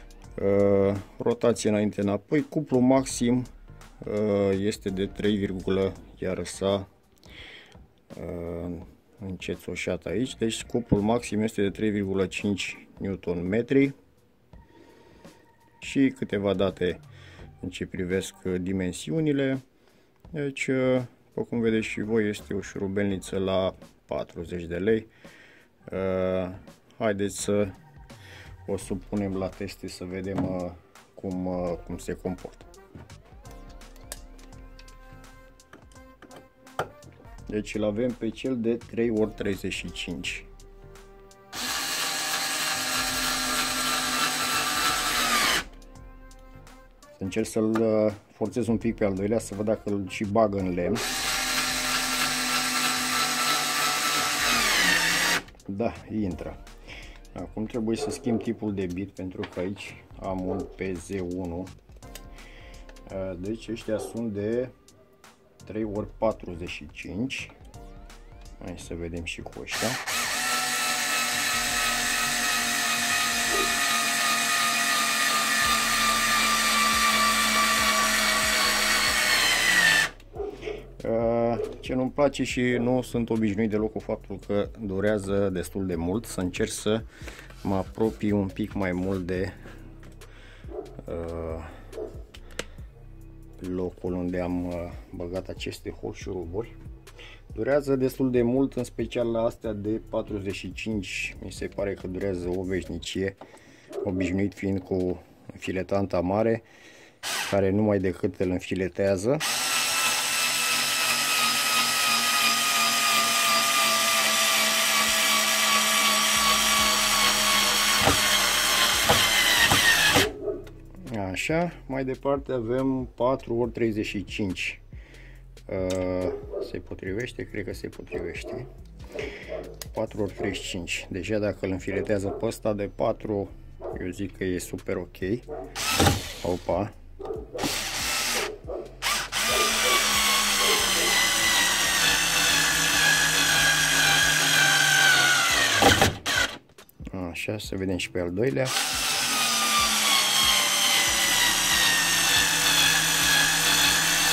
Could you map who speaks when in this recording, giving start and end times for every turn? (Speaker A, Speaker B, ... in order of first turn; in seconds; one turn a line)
Speaker A: 0.3-3.5
Speaker A: 4.0-6.9
Speaker A: 8.1-13.9
Speaker A: 15.8-17.0
Speaker A: 17.6-19.6
Speaker A: 20.3-25.1
Speaker A: 25.9-27.7
Speaker A: 28.6-32.7
Speaker A: 37.5-40.5
Speaker A: 47.1-51.0
Speaker A: 55.7-56.6
Speaker A: 57.3-61.7
Speaker A: 63.1-64.7
Speaker A: 65.6-67.5
Speaker A: 68.6-70.0
Speaker A: 81.0-87.1
Speaker A: 87.6-89.5
Speaker A: 91.0-91.7
Speaker A: 93.6-96.7
Speaker A: 97.5-103.4
Speaker A: 104.0-106.6
Speaker A: 107.4-109.5
Speaker A: 121.0-124.8
Speaker A: 125.7-128.7
Speaker A: 129.9-135.5
Speaker A: 136.4-136.9
Speaker A: 147.1-148.8